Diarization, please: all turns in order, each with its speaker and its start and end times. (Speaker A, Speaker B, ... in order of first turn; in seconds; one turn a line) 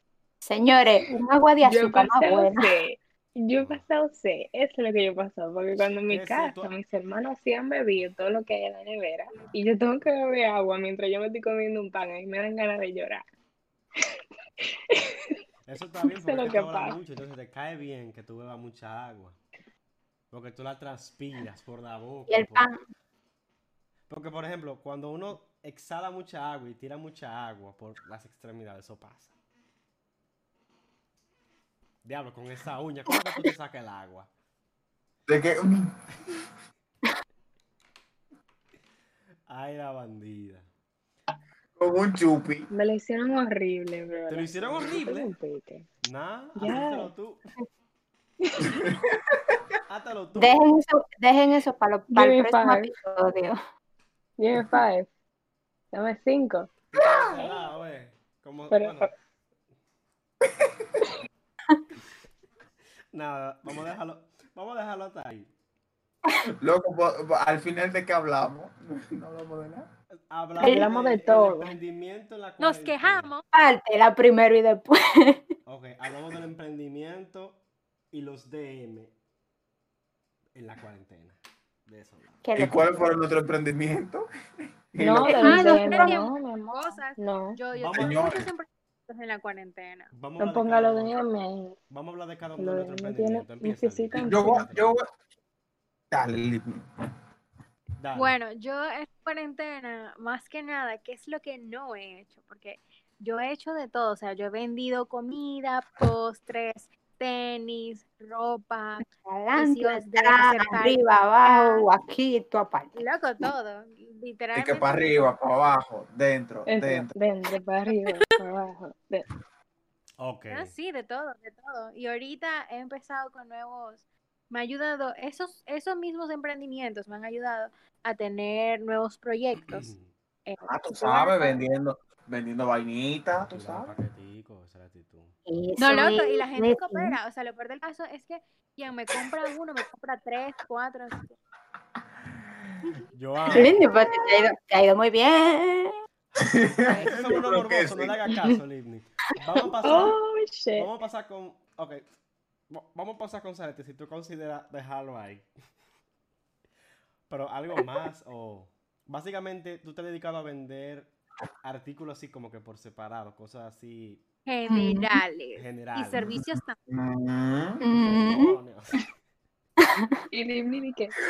Speaker A: 0.4-2.7
Speaker B: 1.6-13.2
Speaker C: 3.6-3.8
Speaker C: 6.1-6.7
Speaker B: 14.9-15.4
Speaker C: 15.7-19.4
Speaker B: 16.0-17.0
Speaker C: 20.3-22.7
Speaker A: 22.3-22.8
Speaker C: 24.1-29.3
Speaker C: 32.0-34.3
Speaker D: 35.3-36.4
Speaker C: 39.5-40.7
Speaker D: 41.8-42.7
Speaker B: 42.7-45.9
Speaker C: 44.3-45.3
Speaker C: 46.0-47.4
Speaker B: 46.6-47.1
Speaker B: 48.4-48.8
Speaker D: 48.6-49.6
Speaker C: 49.9-50.6
Speaker A: 50.4-53.6
Speaker B: 52.1-52.9
Speaker B: 54.4-55.1
Speaker B: 55.9-56.7
Speaker C: 56.9-59.1
Speaker B: 58.7-59.1
Speaker D: 60.5-61.0
Speaker C: 63.1-65.5
Speaker D: 66.6-69.9
Speaker C: 70.3-73.3
Speaker B: 70.6-71.8
Speaker A: 70.6-70.9
Speaker E: 72.6-73.4
Speaker A: 73.5-75.4
Speaker C: 75.7-77.6
Speaker C: 78.1-79.1
Speaker C: 80.5-82.4
Speaker A: 82.4-83.2
Speaker D: 82.6-84.3
Speaker D: 84.9-85.7
Speaker B: 85.0-87.6
Speaker A: 85.3-86.3
Speaker E: 85.4-90.1
Speaker C: 87.7-88.4
Speaker D: 88.0-88.5
Speaker C: 90.1-91.2
Speaker B: 90.4-91.8
Speaker C: 91.9-94.9
Speaker B: 92.6-94.5
Speaker D: 94.2-95.0
Speaker D: 96.1-96.8
Speaker C: 98.0-98.4
Speaker E: 98.1-111.9
Speaker A: 109.0-113.0
Speaker E: 113.0-115.3
Speaker D: 114.5-117.1
Speaker B: 116.7-119.2
Speaker E: 117.9-118.3
Speaker C: 120.2-120.7
Speaker E: 120.5-129.9
Speaker C: 129.6-130.1
Speaker E: 130.5-131.6
Speaker D: 130.7-134.0
Speaker C: 133.5-135.4
Speaker A: 135.5-137.2
Speaker E: 135.8-141.3
Speaker D: 142.3-143.0
Speaker C: 143.1-143.8
Speaker D: 143.5-143.9
Speaker A: 143.5-145.9
Speaker C: 146.3-150.2
Speaker D: 146.4-148.3
Speaker B: 149.8-150.9
Speaker C: 150.8-152.0
Speaker C: 152.7-155.5
Speaker C: 157.3-161.1
Speaker C: 161.6-164.2
Speaker E: 164.5-166.8
Speaker A: 164.7-165.2
Speaker C: 165.6-166.3
Speaker D: 166.3-167.8
Speaker A: 167.8-168.6
Speaker C: 167.9-169.0
Speaker A: 169.8-170.2
Speaker B: 170.3-171.1